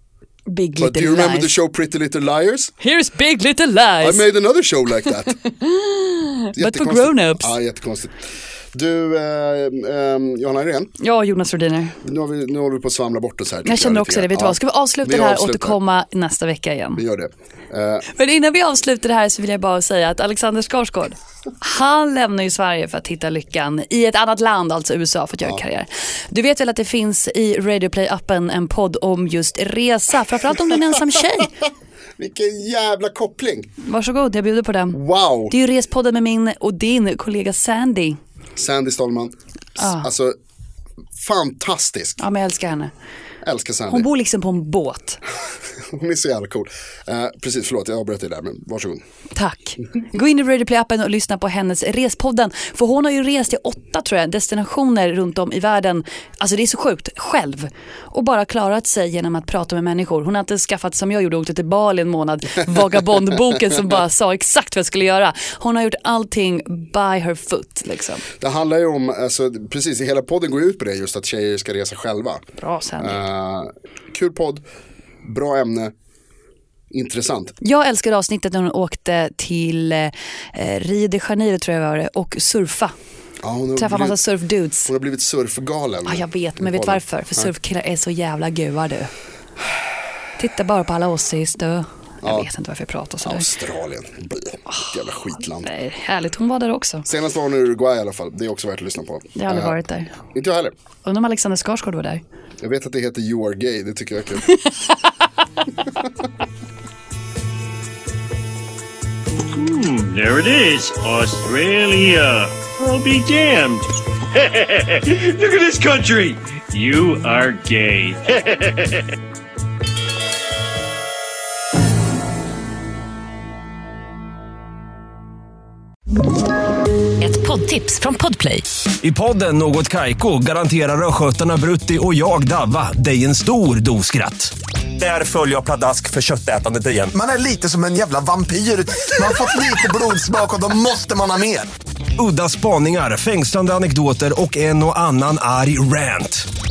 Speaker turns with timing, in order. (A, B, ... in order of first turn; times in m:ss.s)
0:00.5-0:01.6 A
0:00.8-0:02.8 B
0:02.8-0:04.3 A
0:04.0-0:05.4 B
0:05.4-0:07.5 A
0:06.6-0:10.9 B
0:11.0-0:12.0 A
0:12.0-0:15.8 B
0:13.7-0:17.0 A
0:17.0-0:18.1 B
0:18.1-0:31.5 A
0:32.2-0:33.7 B
0:33.8-0:38.2 A
0:34.9-0:35.6 B
0:38.6-0:40.4 B
0:39.8-0:40.1 A
0:41.2-0:42.2 B
0:42.2-0:42.9 A
0:43.4-0:44.1 B
0:43.9-0:45.2 A
0:45.8-0:49.0 B
0:49.4-1:08.2 A
1:08.4-1:12.4 B
1:12.6-1:13.2 A
1:13.0-1:14.6 B
1:15.2-1:15.9 B
1:16.9-1:17.6 B
1:17.6-1:23.0 A
1:23.4-1:24.2 B
1:23.8-1:24.9 A
1:24.9-1:27.5 B
1:26.1-1:29.1 A
1:30.4-1:33.5 A
1:32.2-1:32.5 B
1:33.2-1:35.7 B
1:35.6-1:37.1 A
1:37.1-1:39.8 B
1:39.4-1:40.2 A
1:40.3-1:40.7 B
1:41.0-1:42.2 A
1:42.6-1:44.5 B
1:49.4-1:59.1 C
2:07.2-2:08.6 A
2:09.0-2:17.2 D
2:17.1-2:21.7 E
2:22.2-2:26.5 D